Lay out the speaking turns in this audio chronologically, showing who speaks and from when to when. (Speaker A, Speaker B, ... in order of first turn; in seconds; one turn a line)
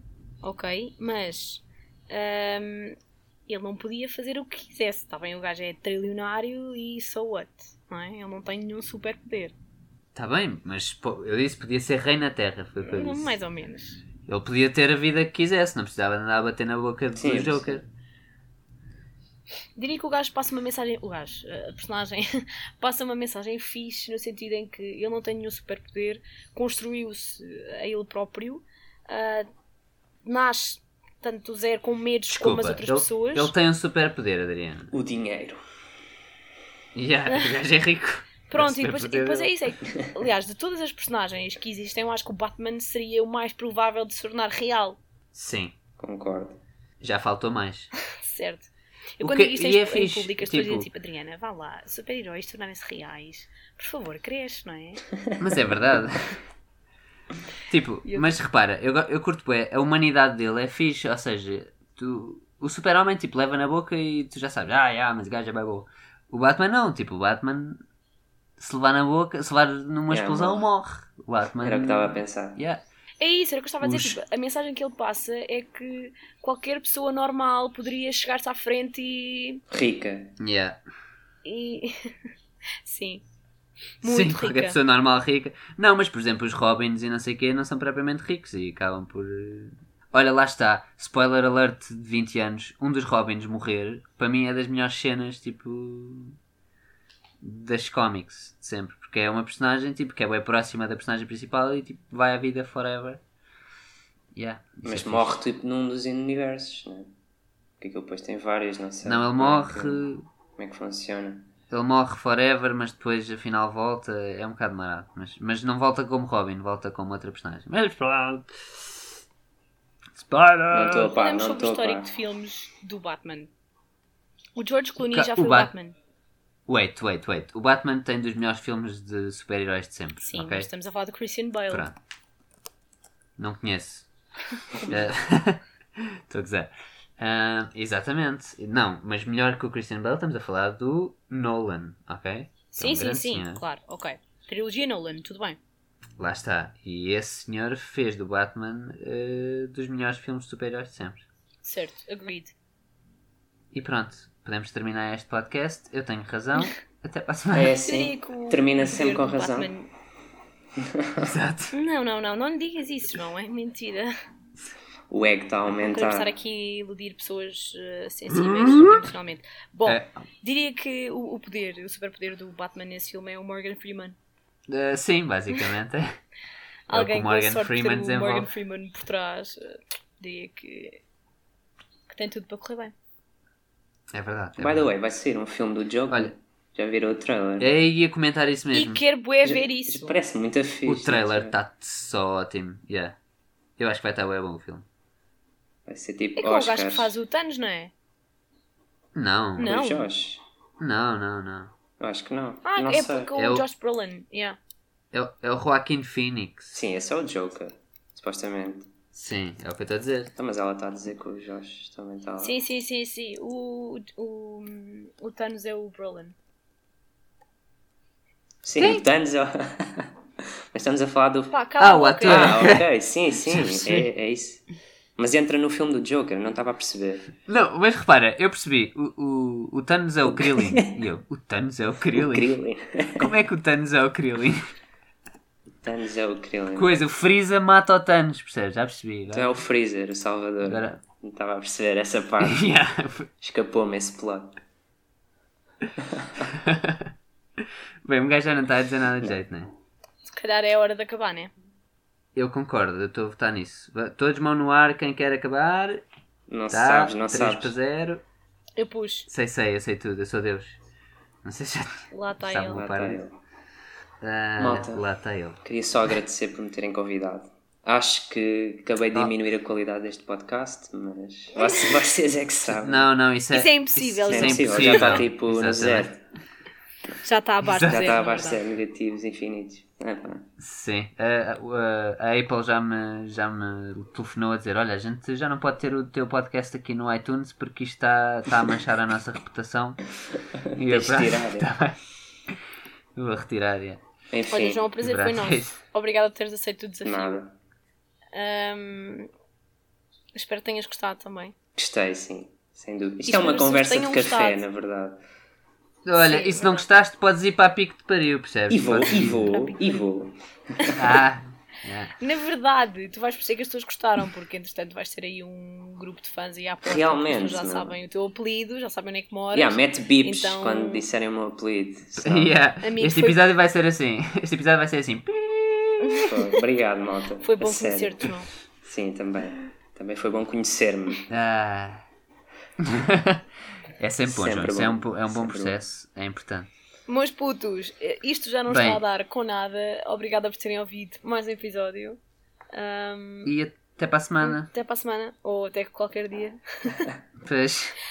Speaker A: 0.4-3.0
Speaker A: 3.5-9.5
Speaker B: 10.1-13.4
Speaker A: 12.8-14.0
Speaker B: 14.2-17.8
Speaker C: 17.1-17.8
Speaker A: 19.8-22.3
Speaker A: 22.8-29.5
Speaker A: 30.2-33.5
Speaker B: 32.3-34.9
Speaker C: 34.9-35.6
Speaker B: 36.9-39.5
Speaker A: 38.5-45.0
Speaker B: 45.3-45.7
Speaker C: 46.0-46.6
Speaker B: 47.0-47.9
Speaker A: 48.1-55.0
Speaker B: 49.2-50.9
Speaker B: 55.4-56.4
Speaker B: 57.7-67.8
Speaker A: 58.0-58.3
Speaker B: 68.6-72.8
Speaker C: 70.1-70.6
Speaker C: 71.6-72.6
Speaker A: 73.2-79.6
Speaker B: 73.8-74.2
Speaker C: 79.7-80.3
Speaker B: 80.4-80.8
Speaker A: 81.4-82.2
Speaker A: 82.8-83.2
Speaker A: 84.0-84.8
Speaker B: 84.0-96.4
Speaker B: 97.4-103.2
Speaker B: 104.3-105.3
Speaker C: 104.8-107.1
Speaker C: 107.8-111.5
Speaker B: 109.0-110.2
Speaker B: 111.7-119.0
Speaker B: 120.2-121.1
Speaker C: 120.7-122.1
Speaker A: 121.1-123.5
Speaker A: 124.6-125.9
Speaker B: 125.0-125.7
Speaker B: 126.7-130.7
Speaker A: 130.2-131.9
Speaker B: 131.7-131.9
Speaker B: 133.4-134.1
Speaker B: 134.9-143.6
Speaker A: 142.7-145.6
Speaker B: 146.2-151.2
Speaker A: 151.6-152.5
Speaker B: 153.7-157.8
Speaker C: 157.5-159.7
Speaker A: 157.8-159.9
Speaker B: 161.2-161.7
Speaker A: 161.7-164.1
Speaker C: 165.1-166.3
Speaker A: 165.9-174.2
Speaker B: 168.3-169.1
Speaker B: 169.8-170.2
Speaker B: 174.7-176.2
Speaker A: 176.9-181.0
Speaker B: 176.9-178.5
Speaker A: 182.1-182.9
Speaker B: 184.1-184.9
Speaker C: 184.6-187.7
Speaker B: 187.6-189.0
Speaker A: 188.7-190.1
Speaker C: 189.4-191.5
Speaker B: 190.8-193.2
Speaker B: 193.8-194.8
Speaker C: 195.8-197.1
Speaker A: 196.4-197.9
Speaker B: 199.1-199.7
Speaker A: 199.6-200.1
Speaker C: 199.6-200.4
Speaker B: 200.8-201.7
Speaker C: 202.0-203.3
Speaker A: 202.6-204.6
Speaker B: 203.3-203.6
Speaker B: 205.1-206.8
Speaker C: 206.7-208.9
Speaker B: 209.1-210.3
Speaker C: 210.3-212.5
Speaker A: 212.4-216.3
Speaker C: 218.6-220.1
Speaker C: 220.7-221.6
Speaker A: 221.5-222.6
Speaker B: 221.8-222.8
Speaker C: 222.2-224.6
Speaker B: 223.5-224.1
Speaker C: 225.2-227.3
Speaker B: 227.5-232.5
Speaker C: 230.3-231.0
Speaker C: 232.1-233.3
Speaker B: 233.2-234.6
Speaker C: 235.8-237.0
Speaker B: 236.7-239.6
Speaker C: 239.3-242.7
Speaker B: 240.6-241.0
Speaker B: 242.4-243.3
Speaker C: 243.4-244.6
Speaker C: 246.1-246.4
Speaker B: 246.5-249.7
Speaker A: 250.2-251.5
Speaker B: 252.3-256.0
Speaker C: 256.5-257.7
Speaker B: 256.7-258.2
Speaker A: 258.8-259.3
Speaker B: 259.3-260.8
Speaker B: 261.4-263.2
Speaker A: 262.1-262.8
Speaker C: 262.7-263.4
Speaker B: 264.2-265.6
Speaker C: 264.6-265.0
Speaker C: 265.6-273.1
Speaker A: 271.6-271.9
Speaker B: 272.6-276.1
Speaker A: 273.5-275.2
Speaker C: 274.3-276.2
Speaker A: 277.2-278.6
Speaker B: 277.6-278.1
Speaker C: 277.8-280.5
Speaker B: 280.6-290.0
Speaker C: 290.7-291.7
Speaker B: 290.7-292.5
Speaker B: 293.1-294.0
Speaker C: 294.3-294.9
Speaker A: 294.5-297.4
Speaker B: 295.0-295.8
Speaker C: 297.0-297.5
Speaker A: 298.3-299.3
Speaker A: 300.3-301.5
Speaker C: 301.7-305.2
Speaker A: 303.3-304.6
Speaker B: 306.0-309.5
Speaker A: 306.1-306.9
Speaker C: 308.7-311.0
Speaker A: 309.4-310.0
Speaker B: 311.0-312.1
Speaker A: 312.2-321.1
Speaker C: 316.8-317.9
Speaker C: 319.5-322.5
Speaker B: 322.2-326.3
Speaker A: 322.8-323.4
Speaker A: 326.0-326.3
Speaker C: 326.2-331.2
Speaker A: 327.4-328.5
Speaker B: 331.3-332.1
Speaker B: 332.8-333.4
Speaker B: 334.0-336.7
Speaker C: 334.2-335.8
Speaker A: 337.1-342.2
Speaker B: 338.7-339.0
Speaker A: 342.7-343.5
Speaker B: 343.4-344.7
Speaker A: 344.4-347.1
Speaker B: 347.4-347.9